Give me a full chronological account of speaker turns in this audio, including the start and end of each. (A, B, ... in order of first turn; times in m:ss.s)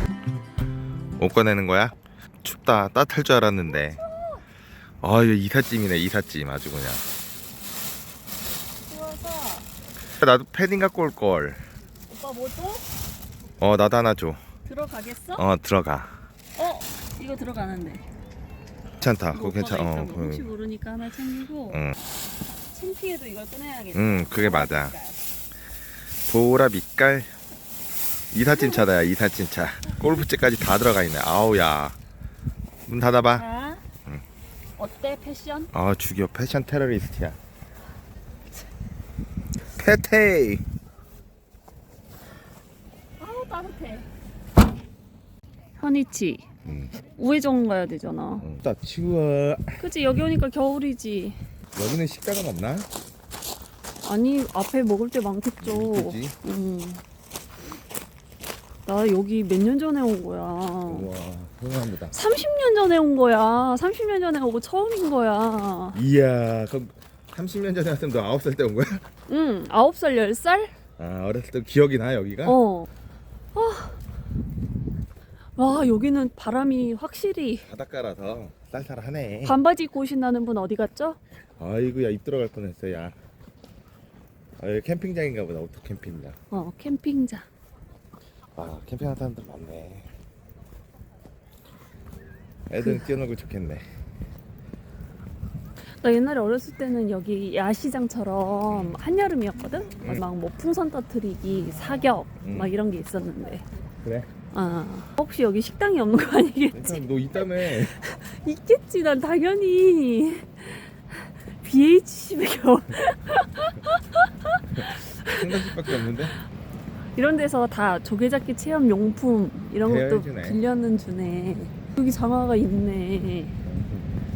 0:01.2-0:04.0 A
0:03.7-0:04.4 B
0:05.0-0:07.0 A
0:08.9-0:09.7 B
0:10.2-0:11.7 A
0:12.1-0:12.8 B
0:13.6-0:14.4 A
0:14.7-0:15.5 B
0:15.4-0:16.2 A
0:16.6-0:18.0 B
0:19.0-0:20.5 A
0:19.3-0:21.8 B
0:21.7-0:22.0 A
0:22.7-0:25.2 B
0:23.9-0:25.0 A
0:26.3-0:27.3 A
0:28.3-0:32.0 A
0:28.5-0:28.9 B
0:32.9-0:33.4 A
0:33.3-0:33.8 B
0:34.8-0:35.7 B
0:35.7-0:37.4 A
0:39.8-0:40.6 A
0:43.2-0:44.1 B
0:45.8-0:46.5 B
0:46.6-0:47.0 A
0:47.0-0:48.5 B
0:48.4-0:49.8 A
0:49.8-0:51.4 B
0:51.7-0:52.9 A
0:54.0-0:57.0 B
0:55.6-0:56.4 A
0:58.9-1:01.1 B
1:00.9-1:02.2 A
1:02.1-1:06.0 B
1:05.9-1:09.1 A
1:09.3-1:10.8 B
1:11.0-1:12.6 A
1:12.4-1:12.9 B
1:13.5-1:14.0 B
1:15.6-1:17.7 B
1:17.7-1:19.6 A
1:19.4-1:21.2 B
1:21.6-1:23.2 A
1:24.6-1:26.4 A
1:26.5-1:27.5 B
1:28.6-1:30.1 A
1:32.7-1:33.8 A
1:32.8-1:33.2 B
1:36.0-1:43.6 B
1:38.7-1:39.0 A
1:42.4-1:42.7 A
1:44.0-1:44.3 A
1:44.5-1:56.2 B
1:46.7-1:48.0 A
1:54.8-1:56.4 A
1:57.2-2:03.6 B
1:59.8-2:00.6 A
2:03.6-2:04.1 A